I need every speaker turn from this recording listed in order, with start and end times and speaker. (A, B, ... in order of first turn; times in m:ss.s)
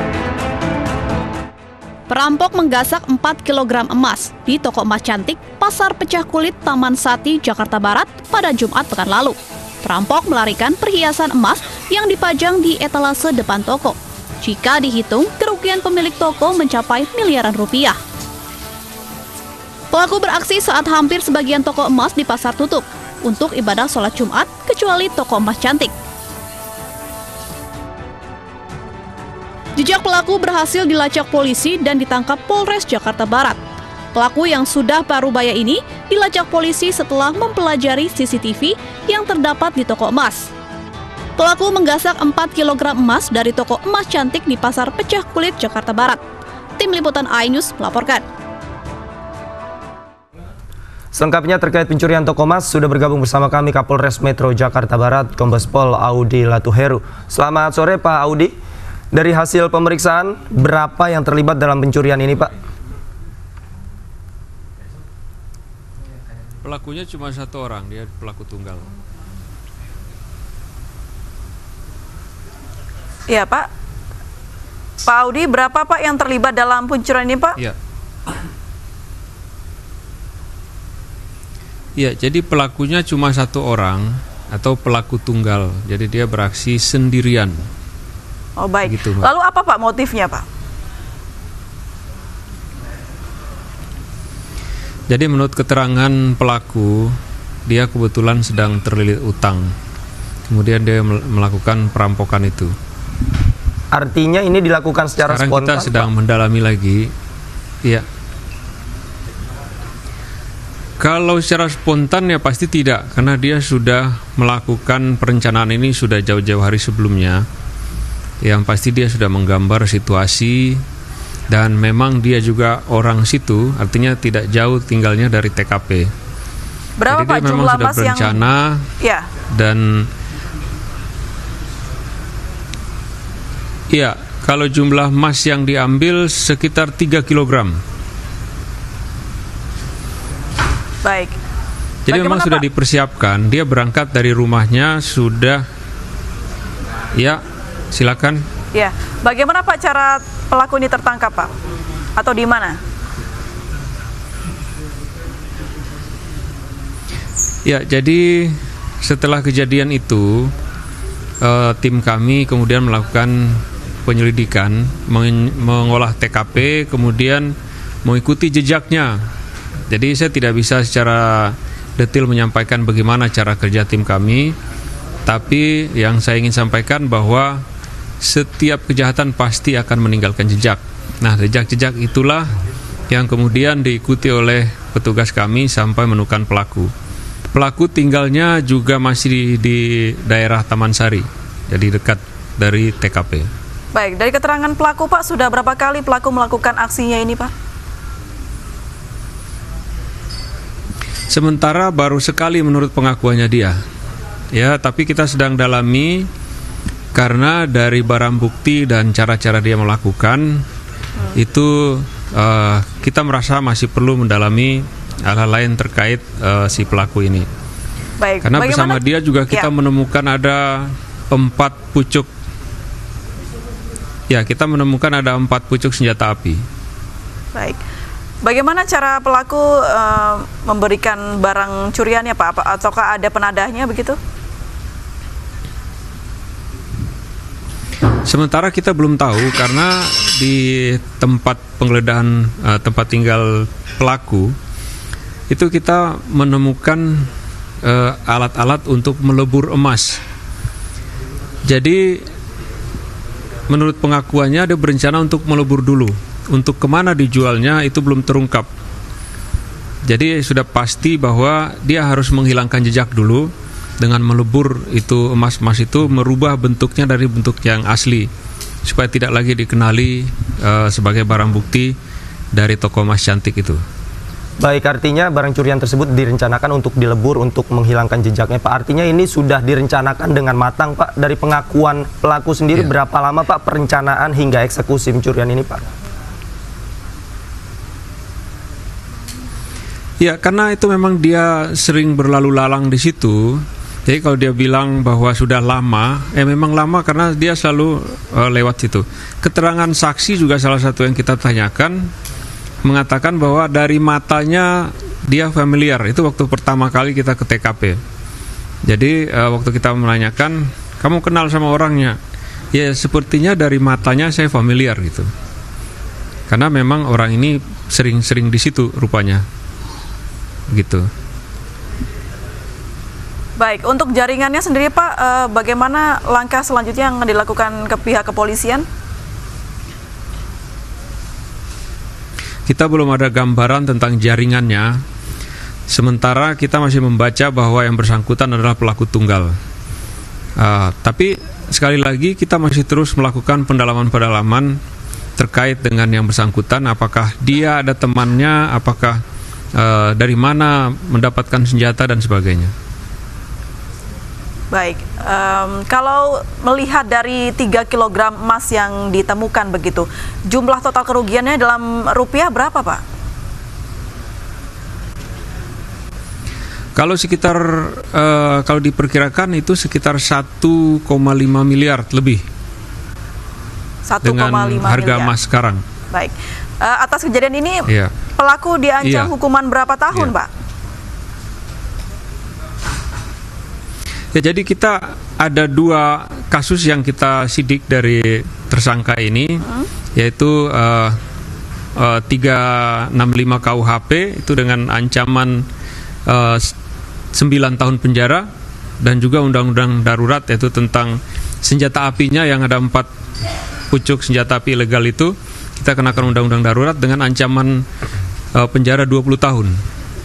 0:02.1-0:18.0 A
0:19.9-0:25.9 A
0:29.8-0:33.6 A
0:34.2-0:40.5 A
0:41.4-0:46.2 A
0:46.8-0:48.2 A
0:51.1-0:58.5 B
0:59.1-1:02.5 B
1:06.6-1:08.9 C
1:13.3-1:13.7 D
1:15.0-1:17.6 D
1:22.0-1:27.6 C
1:28.6-1:30.4 D
1:28.9-1:29.3 C
1:35.1-1:37.2 C
1:37.7-1:39.7 C
1:40.5-1:42.7 C
1:43.9-1:46.1 B
1:45.3-1:47.1 C
1:51.0-1:57.4 C
1:58.4-2:00.8 C
2:01.5-2:06.1 C
2:07.0-2:08.4 D
2:07.1-2:08.9 C
2:09.0-2:09.3 D
2:09.5-2:10.1 C
2:13.9-2:17.8 C
2:21.0-2:21.4 D
2:22.1-2:25.6 C
2:22.1-2:22.6 D
2:27.9-2:28.4 C
2:28.7-2:31.5 D
2:32.2-2:32.8 D
2:37.6-2:40.5 C
2:41.4-2:49.2 C
2:49.9-2:54.6 C
2:55.3-2:57.6 C
2:58.2-3:02.5 C
3:03.1-3:06.9 C
3:07.5-3:13.5 C
3:13.9-3:17.5 D
3:21.3-3:23.8 C
3:24.5-3:26.3 C
3:27.2-3:30.6 C
3:31.4-3:37.5 C
3:38.2-3:39.7 D
3:38.4-3:42.3 C
3:44.3-3:46.6 C
3:48.4-3:54.2 D
3:58.3-4:04.5 C
4:05.5-4:07.3 C
4:07.8-4:10.2 C
4:11.7-4:12.3 C
4:13.7-4:18.7 C
4:20.0-4:28.3 C
4:28.8-4:31.9 C
4:32.5-4:33.8 C
4:34.6-4:45.8 B
4:50.2-5:02.1 C
5:02.8-5:08.0 C
5:08.9-5:12.2 C
5:12.7-5:15.3 C
5:16.5-5:19.4 C
5:20.7-5:21.0 C
5:23.6-5:28.9 D
5:32.7-5:35.0 C
5:35.9-5:39.5 C
5:40.6-5:44.8 C
5:45.4-5:49.2 C
5:49.8-5:52.7 C
5:54.7-6:03.0 D
6:07.0-6:12.4 C
6:14.1-6:15.3 D
6:14.2-6:15.8 C
6:16.1-6:20.5 D
6:19.0-6:19.3 C
6:24.4-6:29.6 C
6:30.2-6:31.2 C
6:32.0-6:35.6 C
6:36.3-6:36.8 C
6:37.4-6:38.5 C
6:39.0-6:43.1 C
6:43.9-6:47.8 C
6:48.6-6:49.8 C